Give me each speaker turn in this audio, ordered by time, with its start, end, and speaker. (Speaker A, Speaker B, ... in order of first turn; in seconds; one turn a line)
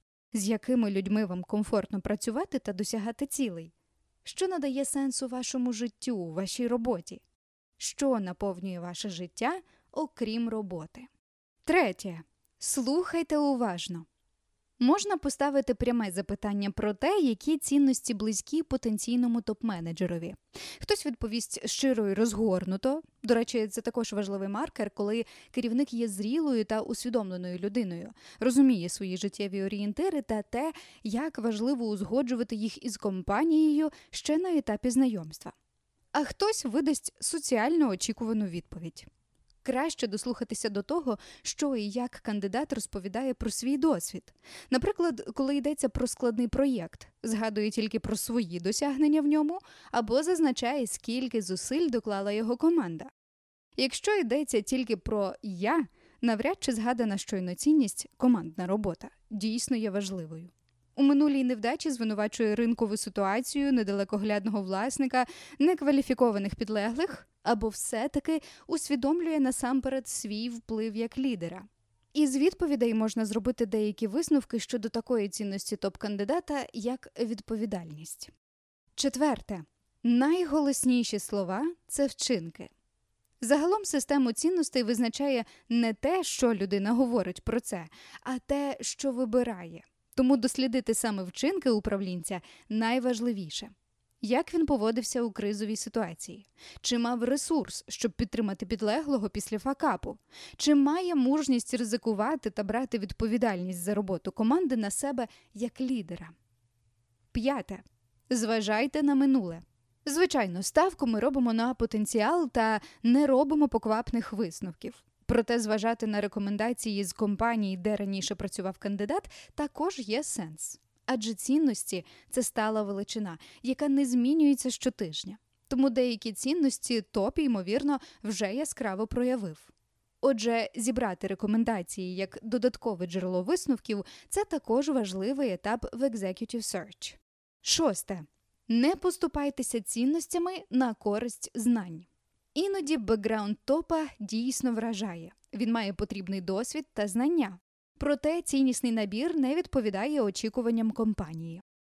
Speaker A: 0.3-3.7
Speaker A: 4.2-7.2
Speaker A: 7.8-11.1
Speaker A: 11.7-14.1
Speaker A: 14.8-35.5
Speaker A: 36.1-39.1
Speaker A: 39.6-53.1
Speaker A: 53.8-78.3
Speaker A: 79.0-82.7
Speaker A: 83.4-106.3
Speaker A: 107.3-151.6